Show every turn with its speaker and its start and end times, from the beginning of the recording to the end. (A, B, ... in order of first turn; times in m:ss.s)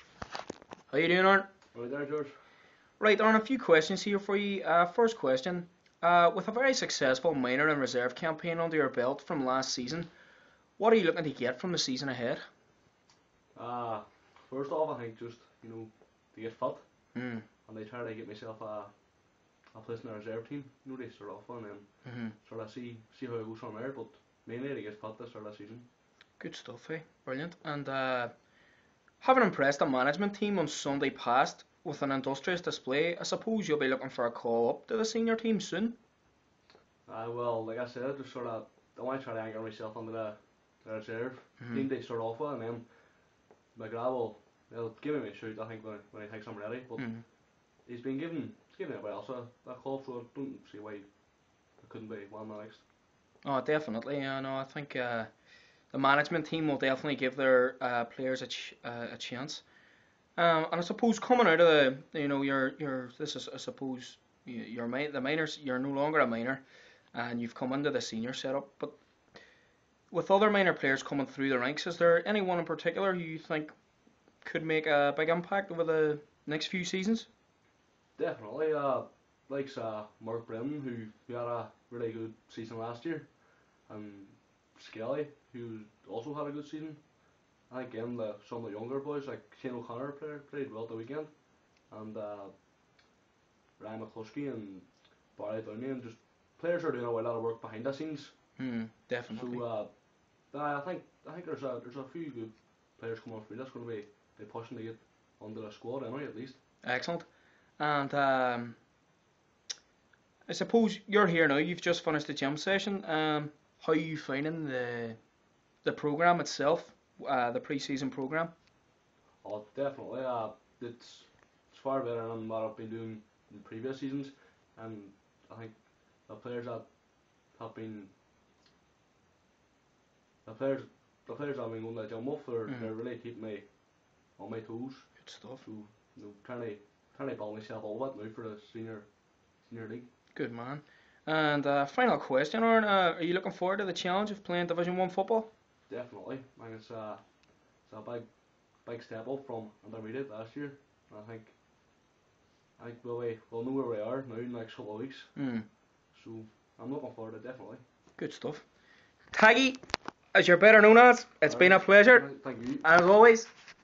0:00.9-0:01.5 A
0:01.7-0:02.3 B
0:03.0-0:10.1 A
0:10.8-0:12.4 A
0:13.5-0:17.1 B
0:17.1-0:17.4 A
0:17.6-0:19.0 B
0:19.7-0:25.8 B
0:22.0-0:22.3 A
0:26.4-0:28.3 A
0:29.2-0:36.0 A
0:37.0-0:42.9 B
0:41.6-0:41.9 A
0:43.7-0:47.2 B
0:47.0-0:47.2 A
0:47.8-0:51.2 B
0:51.7-0:52.8 B
0:53.4-0:55.3 A
0:55.9-0:59.6 A
1:00.4-1:09.0 A
1:10.1-1:13.7 A
1:14.4-1:17.3 A
1:18.2-1:27.0 B
1:27.7-1:32.6 B
1:33.8-1:38.6 B
1:38.6-1:39.6 A
1:39.3-1:46.6 B
1:46.8-1:48.8 A
1:50.5-1:55.2 A
1:55.8-1:58.5 A
1:59.4-2:08.1 B
2:10.4-2:20.1 B
2:12.6-2:12.9 A
2:15.2-2:15.6 A
2:20.3-2:25.5 A
2:25.9-2:27.3 B
2:27.8-2:31.6 B
2:32.8-2:35.3 B
2:35.3-2:35.6 A
2:36.1-2:37.8 B
2:38.2-2:38.6 A
2:39.3-2:39.8 A
2:40.3-2:42.3 A
2:41.4-2:42.8 B
2:42.8-2:43.5 A